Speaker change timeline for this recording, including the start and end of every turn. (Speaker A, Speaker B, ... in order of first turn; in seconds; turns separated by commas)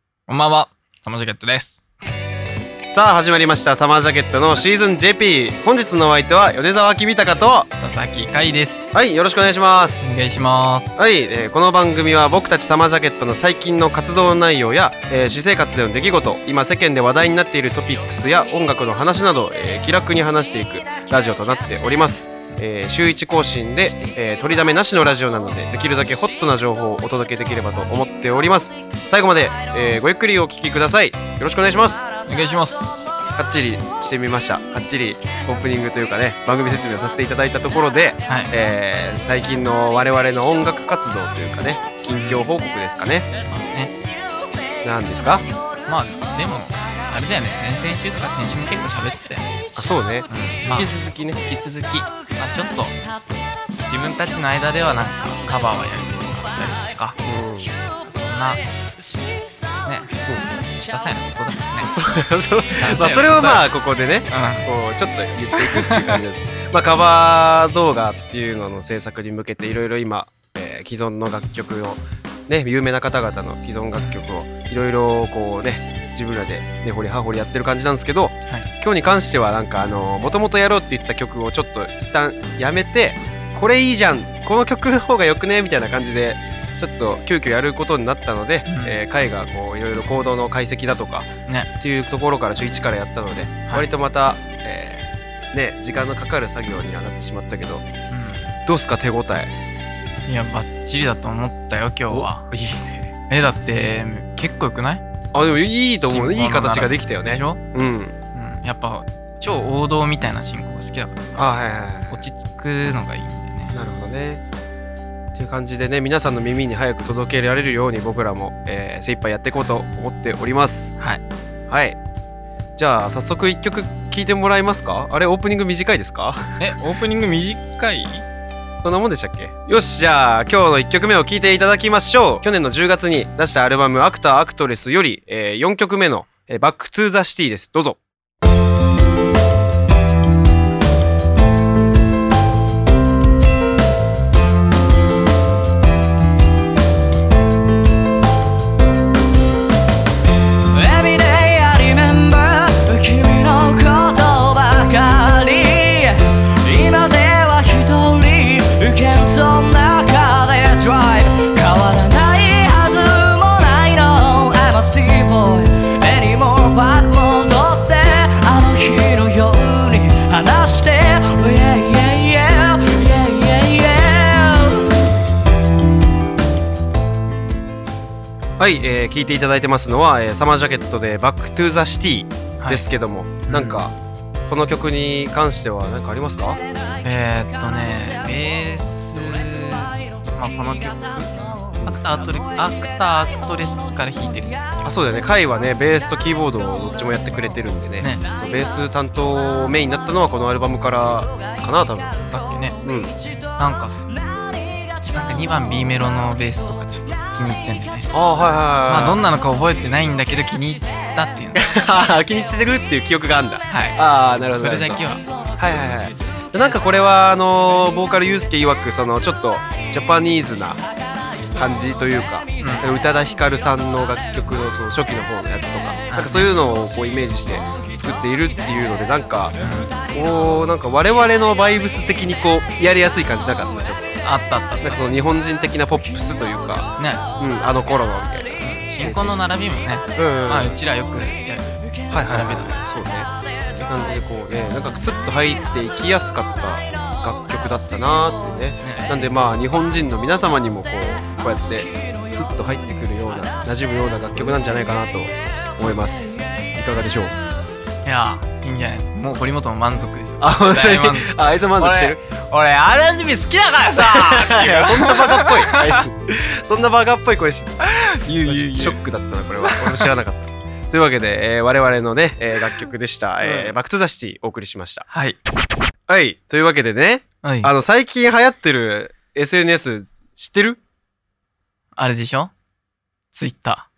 Speaker A: 0.3-1.9, Speaker B: 2.9-7.7, Speaker A: 7.8-9.0, Speaker B: 8.9-10.1, Speaker A: 10.0-11.0, Speaker B: 11.0-32.0, Speaker A: 32.2-33.2, Speaker B: 33.3-43.3, Speaker A: 38.2-38.5, Speaker A: 43.5-43.9, Speaker B: 44.8-45.4, Speaker A: 45.9-49.5, Speaker B: 49.7-51.4, Speaker A: 50.3-52.9, Speaker A: 53.8-57.2, Speaker B: 57.2-57.8, Speaker A: 58.0-58.6, Speaker A: 59.8-60.1, Speaker A: 60.8-61.9, Speaker B: 61.8-97.9, Speaker A: 62.7-63.7, Speaker A: 64.3-64.7, Speaker A: 65.5-66.2, Speaker A: 73.9-74.2, Speaker A: 88.7-89.0, Speaker A: 98.1-98.5, Speaker B: 98.7-99.5, Speaker A: 100.2-102.5, Speaker B: 102.1-103.1, Speaker A: 103.3-107.6, Speaker B: 105.3-108.1, Speaker A: 108.3-111.5, Speaker B: 111.4-112.2, Speaker A: 112.1-113.7, Speaker B: 113.7-114.4, Speaker B: 115.3-120.9, Speaker B: 121.7-122.0, Speaker B: 122.8-126.6, Speaker A: 126.6-128.2, Speaker B: 128.8-138.0, Speaker C: 150.7-175.0, Speaker B: 178.6-183.9, Speaker A: 182.6-182.8, Speaker A: 183.5-183.8, Speaker B: 184.5-186.6, Speaker A: 187.0-194.6, Speaker C: 189.5-189.9, Speaker C: 190.7-191.4, Speaker B: 194.8-202.2, Speaker A: 198.0-198.3, Speaker A: 202.3-202.8, Speaker B: 202.8-203.1, Speaker A: 203.6-204.0, Speaker C: 204.1-204.9, Speaker A: 205.1-208.1, Speaker B: 208.1-209.2, Speaker A: 208.9-211.6, Speaker B: 211.5-215.0, Speaker A: 213.7-215.3, Speaker B: 215.6-220.8, Speaker B: 221.5-229.5, Speaker A: 222.6-222.9, Speaker A: 226.1-226.5, Speaker A: 229.6-229.9, Speaker B: 230.1-234.2, Speaker A: 234.2-235.0, Speaker B: 234.8-239.4, Speaker A: 237.0-237.2, Speaker A: 238.6-242.9, Speaker B: 240.2-240.8, Speaker B: 242.1-257.3, Speaker A: 248.8-249.2, Speaker A: 258.0-265.9, Speaker B: 260.4-262.2, Speaker B: 263.9-275.1, Speaker A: 267.8-269.0, Speaker A: 269.6-270.1, Speaker A: 273.4-273.8, Speaker A: 275.1-275.4, Speaker B: 276.1-280.8, Speaker A: 277.4-277.7, Speaker A: 281.9-282.5, Speaker A: 283.3-283.9